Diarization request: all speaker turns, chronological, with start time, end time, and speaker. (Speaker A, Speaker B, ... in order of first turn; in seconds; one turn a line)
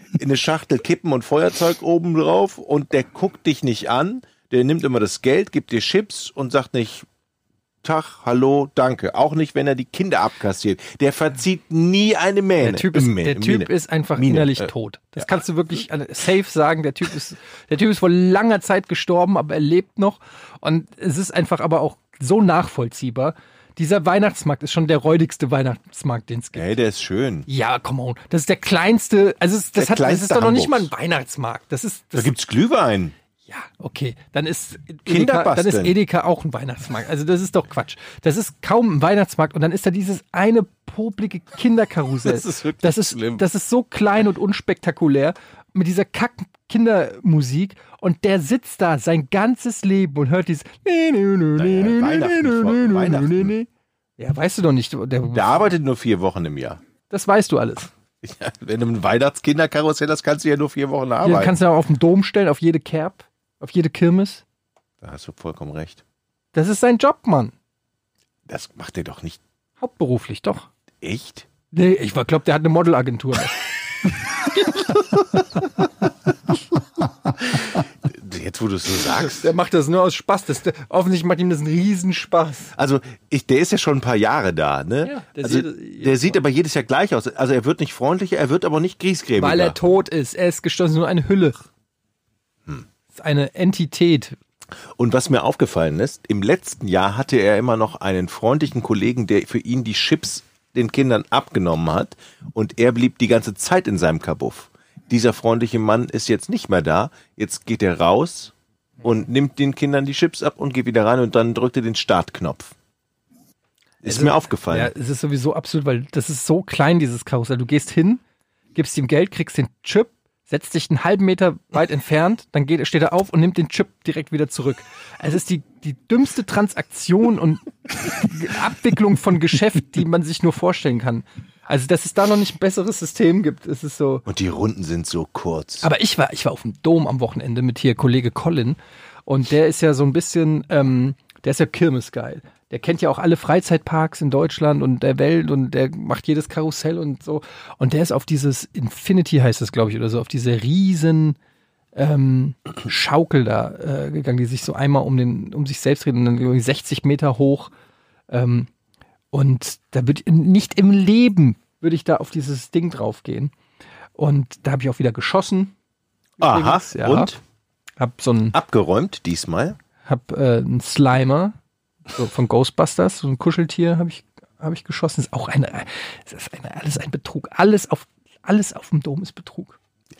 Speaker A: 0.1-7.1
Speaker A: 7.8-15.3
Speaker B: 12.6-26.7
Speaker A: 26.6-27.5
Speaker B: 27.5-32.4
Speaker A: 29.8-30.9
Speaker A: 32.1-33.1
Speaker B: 33.5-53.7
Speaker A: 35.1-36.0
Speaker A: 42.2-43.4
Speaker A: 51.6-53.5
Speaker B: 54.2-55.7
Speaker A: 55.3-56.8
Speaker B: 57.1-57.9
Speaker A: 58.2-61.5
Speaker B: 61.2-64.4
Speaker A: 65.0-66.0
Speaker B: 66.5-67.5
Speaker A: 68.5-69.4
Speaker B: 69.8-70.7
Speaker A: 71.0-71.5
Speaker B: 71.7-73.6
Speaker A: 77.4-79.5
Speaker B: 79.2-82.7
Speaker A: 82.8-89.8
Speaker B: 85.0-86.4
Speaker B: 89.4-91.7
Speaker B: 93.1-94.4
Speaker A: 95.0-112.7
Speaker A: 114.0-114.9
Speaker B: 114.0-118.2
Speaker B: 118.8-134.2
Speaker A: 134.3-135.9
Speaker B: 135.8-151.4
Speaker B: 151.9-157.7
Speaker B: 158.3-158.7
Speaker B: 159.3-163.5
Speaker B: 164.2-165.7
Speaker B: 166.4-167.3
Speaker A: 166.4-167.4
Speaker B: 168.0-168.6
Speaker A: 168.5-169.8
Speaker B: 170.1-171.6
Speaker B: 172.1-179.8